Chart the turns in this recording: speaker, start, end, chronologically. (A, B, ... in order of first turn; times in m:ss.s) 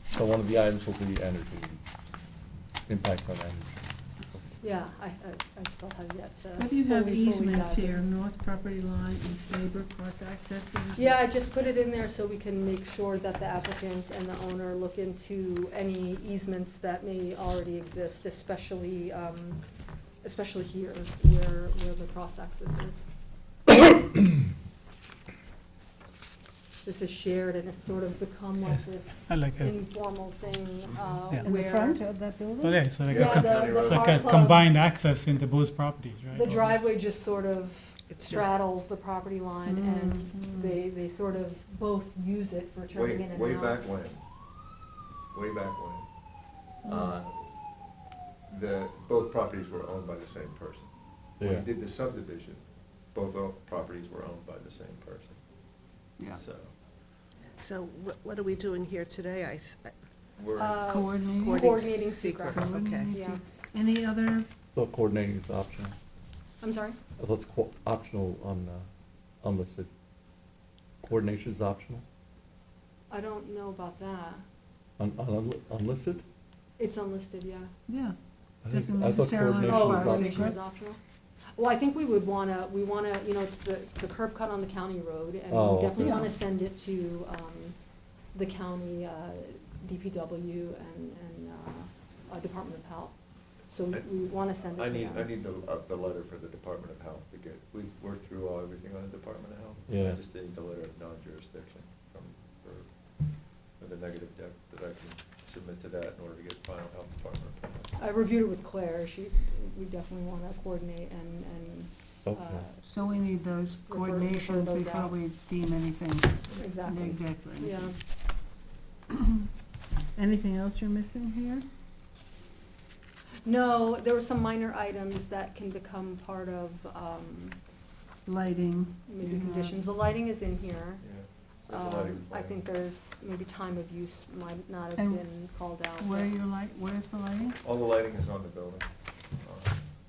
0:00.1-0:01.8 A
0:02.9-0:03.8 A
0:04.6-0:08.0 B
0:06.6-0:11.2 C
0:11.0-0:19.6 B
0:20.2-0:23.1 B
0:26.8-0:32.0 B
0:28.7-0:29.8 D
0:31.4-0:32.8 C
0:32.6-0:36.9 D
0:33.0-0:34.2 E
0:33.1-0:34.7 B
0:36.3-0:43.9 B
0:38.1-0:38.6 F
0:39.7-0:40.8 C
0:42.9-0:44.2 E
0:45.3-0:46.0 E
0:46.8-0:47.2 C
0:46.8-0:47.3 E
0:48.5-0:52.6 E
0:51.4-0:51.7 A
0:53.1-0:55.4 E
0:56.3-0:56.7 E
0:57.6-0:59.9 F
1:00.4-1:00.8 E
1:00.6-1:03.4 B
1:00.9-1:01.8 C
1:01.2-1:03.1 F
1:02.5-1:04.5 C
1:04.7-1:06.0 A
1:06.6-1:07.0 B
1:07.2-1:08.9 A
1:09.4-1:09.9 A
1:11.0-1:12.0 A
1:13.1-1:14.4 B
1:15.0-1:16.2 A
1:16.8-1:17.7 B
1:17.9-1:18.2 C
1:18.6-1:20.6 A
1:18.7-1:20.6 C
1:19.6-1:21.0 B
1:21.6-1:27.8 B
1:25.5-1:26.3 A
1:26.0-1:26.3 C
1:28.3-1:33.2 B
1:33.7-1:35.3 B
1:34.6-1:42.9 E
1:39.9-1:40.2 A
1:43.8-1:47.9 E
1:47.9-1:52.8 B
1:52.3-1:52.6 A
1:52.8-1:57.9 C
1:53.9-1:55.2 B
1:56.5-1:58.0 B
2:00.2-2:01.6 C
2:03.4-2:07.6 B
2:08.2-2:09.9 C
2:09.1-2:11.0 B
2:11.0-2:12.6 E
2:11.7-2:16.3 B
2:15.0-2:15.3 C
2:16.0-2:17.6 C
2:17.6-2:18.9 E
2:19.4-2:19.8 E